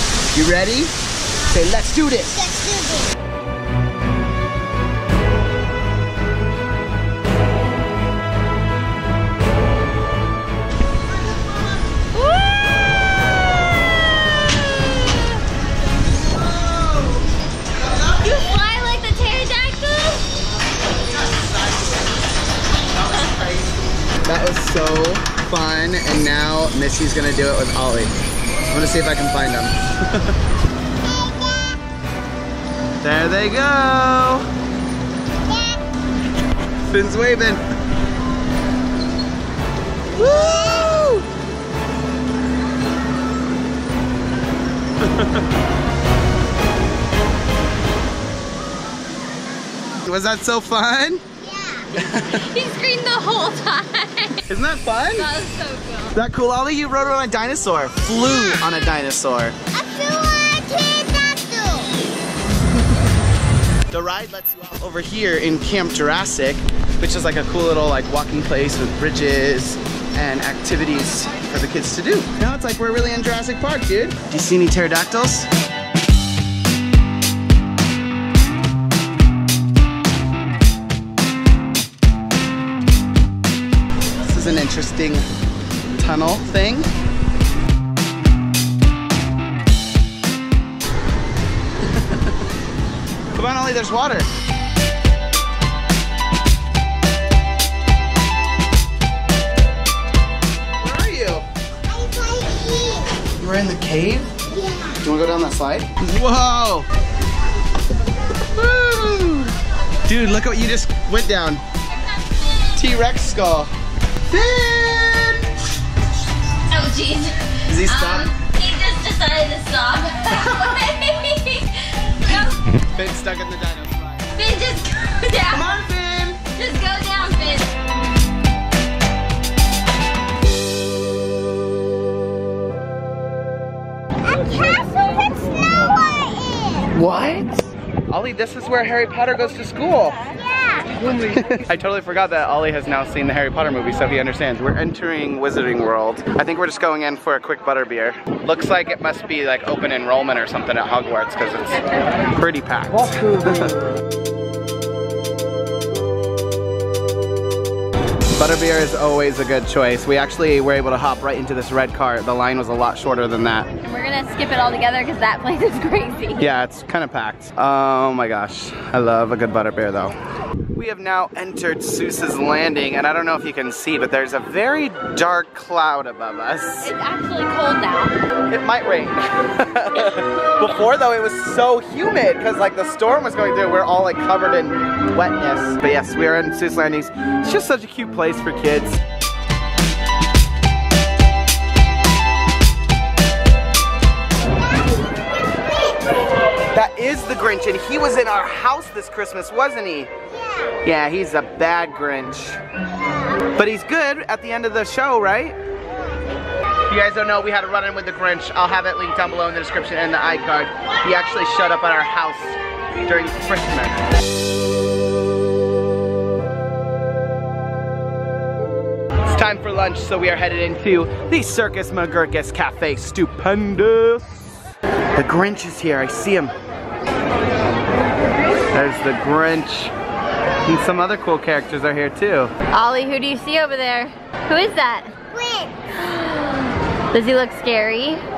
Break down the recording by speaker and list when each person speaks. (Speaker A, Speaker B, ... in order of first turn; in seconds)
Speaker A: 0.3-0.9, 1.5-2.6, 16.3-17.3, 17.9-18.3, 20.9-22.3, 22.8-28.1, 28.7-30.4, 33.0-34.5, 36.9-37.6, 40.1-41.2, 45.0-45.4, 50.0-51.2, 52.0-52.4, 54.5-55.3, 56.1-59.6, 63.9-75.5, 84.1-85.2, 86.0-86.9, 91.9-92.2, 93.3-94.3, 100.8-101.5, 103.4-104.3, 105.0-106.9, 108.4-109.5, 110.1-111.6, 112.8-113.7, 114.3-115.5, 117.7-118.3, 122.7-124.3, 125.5-126.4, 136.9-140.2, 141.0-153.8, 158.4-163.7, 166.4-170.1, 170.7-176.9, 178.5-189.0, 196.7-200.1, 200.8-202.6, 203.5-205.6, 206.9-214.1, 219.3-224.5, 225.1-226.5, 228.7-229.9, 230.7-232.5
Speaker B: 2.5-3.1, 31.0-31.8, 35.5-35.8, 51.4-51.9, 59.7-61.9, 101.9-103.2, 104.5-105.0, 134.3-136.9, 235.3-235.7
Speaker C: 18.2-20.2, 52.3-54.5, 55.2-56.2, 116.7-122.6, 124.3-125.7, 126.5-127.7, 163.8-166.5, 176.8-178.2, 232.7-235.1, 235.9-238.2